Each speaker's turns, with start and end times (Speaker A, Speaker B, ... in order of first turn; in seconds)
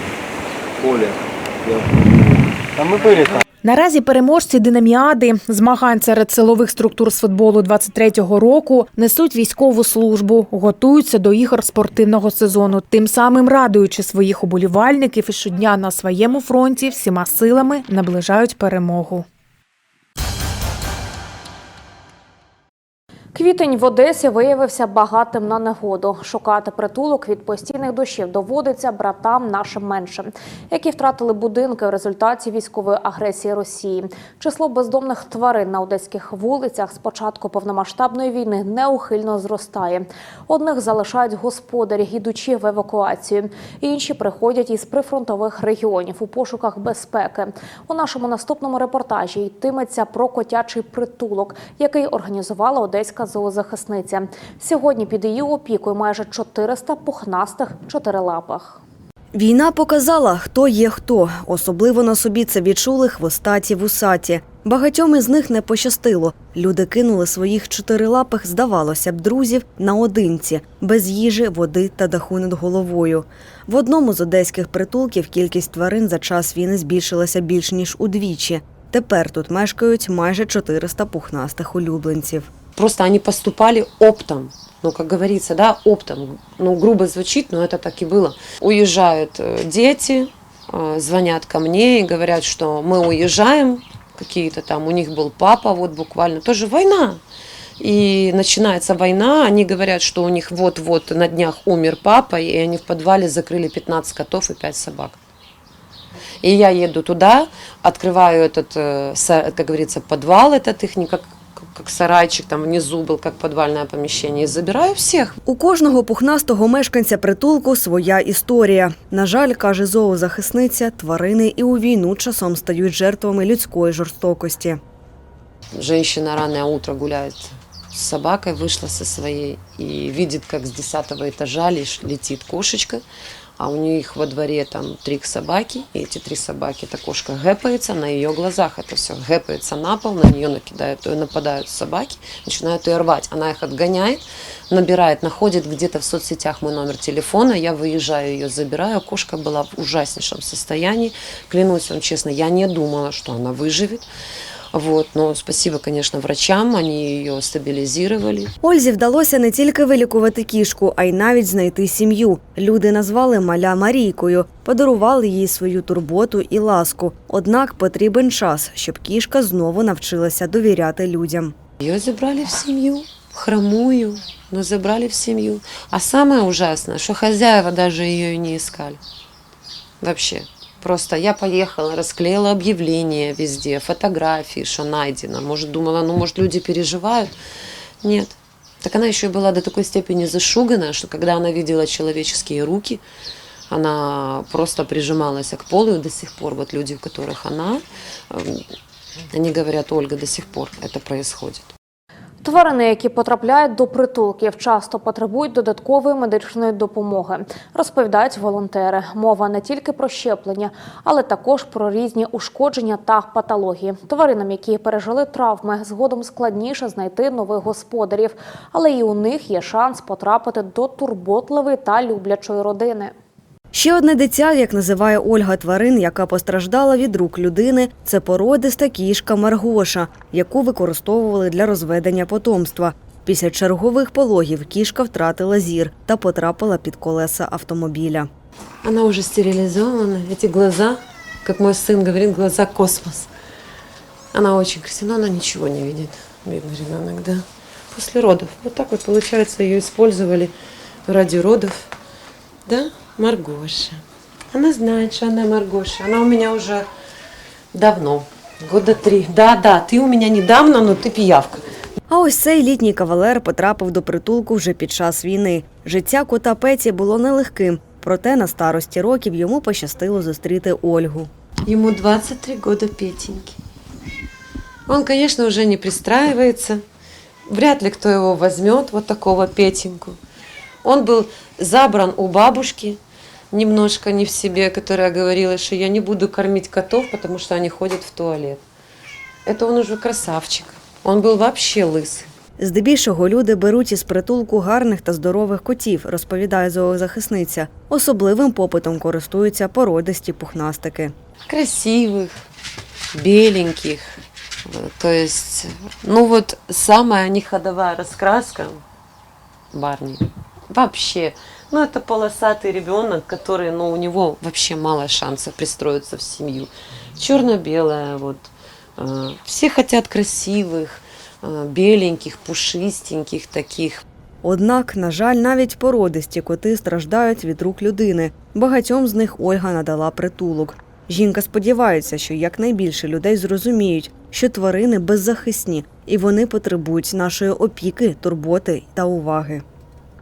Speaker A: 0.8-3.4
Speaker B: 3.6-19.3
Speaker C: 23.4-58.8, 202.4-223.1
Speaker D: 59.3-82.5, 115.5-124.8, 158.6-171.6, 223.7-238.3, 262.1-271.3, 292.6-301.1, 324.4-339.6
Speaker E: 82.8-97.2, 97.8-105.2, 106.4-115.3, 125.7-133.0, 133.6-154.1, 154.7-158.5, 171.8-179.0, 180.0-187.3, 188.0-193.0, 193.7-198.7, 199.3-201.7, 238.8-243.3, 244.3-250.5, 251.1-251.9, 252.7-256.9, 257.7-261.6, 271.7-273.6, 274.9-276.8, 277.5-280.2, 280.8-283.0, 283.5-288.6, 289.5-292.3, 301.5-302.4, 303.1-308.8, 309.7-324.0